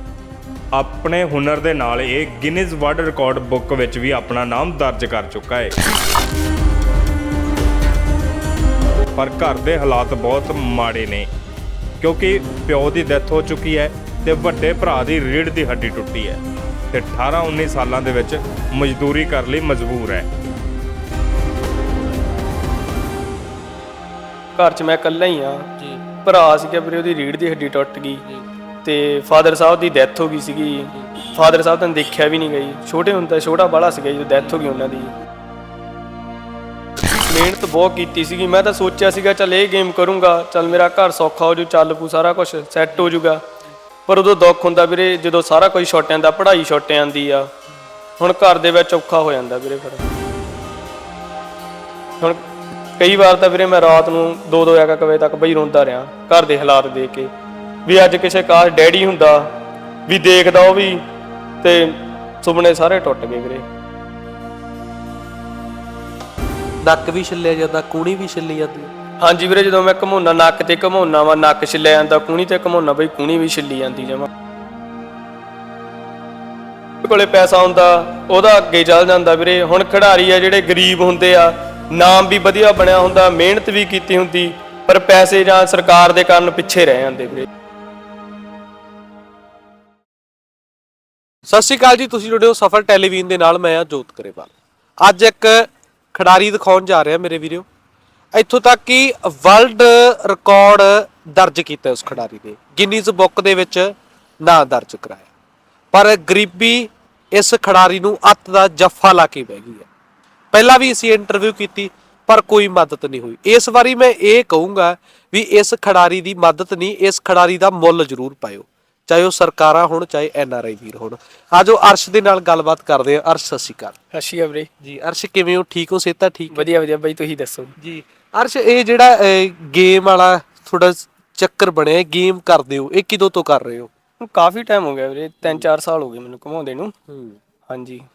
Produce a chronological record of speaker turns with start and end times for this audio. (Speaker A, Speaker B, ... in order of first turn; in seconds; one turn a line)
Speaker A: 0.8-5.8
Speaker A: 9.2-11.3
Speaker A: 12.0-16.4
Speaker A: 16.9-20.3
Speaker B: 24.6-25.7
Speaker B: 26.2-28.2
Speaker B: 28.8-35.1
Speaker B: 37.3-43.4
Speaker B: 44.1-47.5
Speaker B: 48.2-50.1
Speaker B: 53.0-57.3
Speaker B: 57.9-59.5
Speaker B: 60.1-61.0
Speaker B: 61.6-63.6
Speaker C: 66.8-68.9
Speaker B: 69.2-74.3
Speaker B: 77.0-87.5
Speaker C: 91.5-97.7
Speaker C: 98.3-105.3
Speaker C: 105.9-109.9
Speaker C: 110.5-124.0
Speaker B: 124.1-124.7
Speaker C: 124.8-126.7
Speaker B: 126.5-127.7
Speaker C: 127.8-133.9
Speaker B: 134.2-136.9
Speaker C: 137.1-137.4
Speaker B: 137.7-138.0